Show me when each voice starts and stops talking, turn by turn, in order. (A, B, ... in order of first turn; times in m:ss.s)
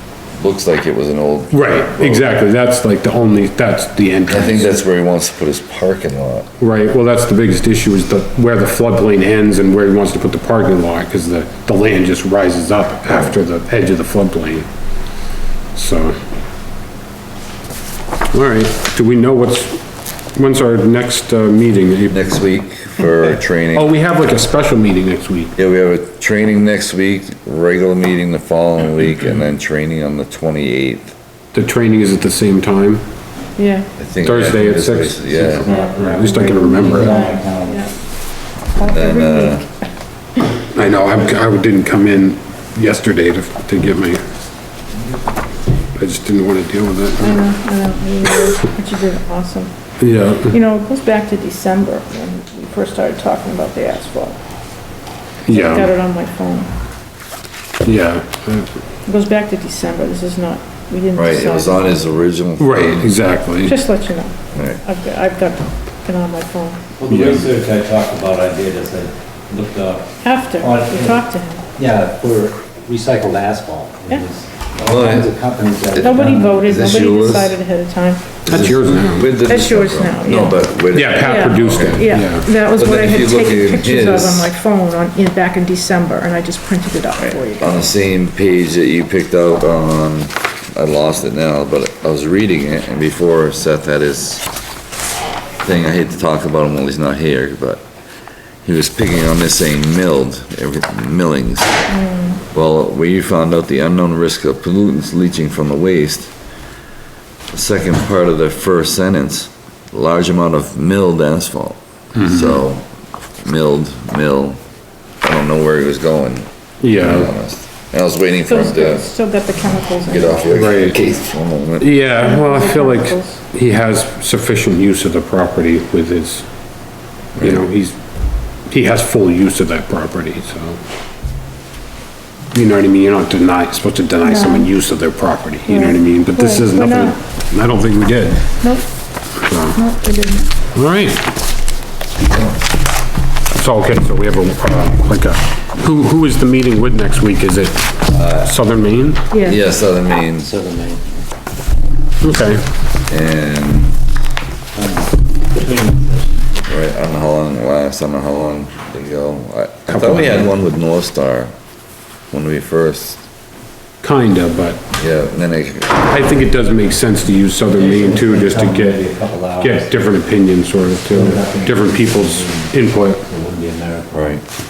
0:00.4-0:02.3 A
0:01.5-0:04.7 B
0:04.3-0:06.5 A
0:06.6-0:14.7 B
0:15.8-0:16.2 B
0:18.3-0:19.8 B
0:20.4-0:22.2 B
0:22.1-0:23.9 A
0:23.8-0:25.5 B
0:25.6-0:31.1 A
0:31.5-0:33.0 B
0:33.6-0:33.9 C
0:34.0-0:35.7 A
0:34.2-0:37.2 B
0:35.6-0:37.8 D
0:35.7-0:35.9 C
0:36.6-0:37.9 C
0:38.7-0:39.7 C
0:38.9-0:39.6 A
0:40.7-0:44.2 B
0:46.0-0:47.4 B
0:47.2-0:49.7 C
0:50.0-0:50.6 B
0:50.5-0:54.4 C
0:55.5-0:55.9 B
0:55.5-0:56.7 C
0:57.8-0:58.7 B
0:59.1-1:02.2 C
1:01.2-1:03.1 A
1:02.6-1:03.8 B
1:03.7-1:06.8 C
1:04.5-1:04.8 A
1:07.0-1:16.8 D
1:07.1-1:07.4 B
1:10.2-1:11.6 C
1:14.8-1:15.3 A
1:15.9-1:17.5 A
1:16.0-1:18.4 C
1:18.4-1:22.1 A
1:18.5-1:19.3 B
1:19.4-1:20.6 C
1:20.9-1:22.5 B
1:21.2-1:27.9 C
1:22.7-1:24.5 A
1:27.2-1:34.4 A
1:35.6-1:37.8 A
1:38.6-1:41.8 A
1:41.9-1:42.4 C
1:42.5-1:46.3 A
1:47.5-1:52.8 A
1:52.2-1:52.6 B
1:53.4-1:54.6 A
1:55.2-1:59.1 A
1:56.8-1:57.3 B
1:58.5-2:00.9 C
2:00.0-2:01.9 A
2:00.5-2:01.0 B
2:01.8-2:06.5 B
2:02.2-2:03.4 C
2:07.4-2:08.0 B
2:08.7-2:10.8 B
2:12.5-2:18.6 B
2:14.2-2:14.7 C
2:15.7-2:17.2 C
2:19.4-2:19.8 B
2:19.8-2:20.5 C
2:20.8-2:21.2 B
2:23.6-2:29.3 B
2:28.1-2:28.6 A
2:29.3-2:29.6 C
2:29.4-2:30.5 A
2:30.4-2:31.2 D
2:32.2-2:32.6 B
2:33.1-2:34.0 A
2:34.8-2:36.6 D
2:36.7-2:41.5 A
2:39.9-2:40.5 B
2:42.3-2:43.2 A
2:44.0-2:44.8 B
2:45.0-2:46.1 A
2:46.1-2:49.0 B
2:47.7-2:50.1 D
2:49.6-2:53.2 B
2:51.1-2:54.4 D
2:54.1-2:54.4 A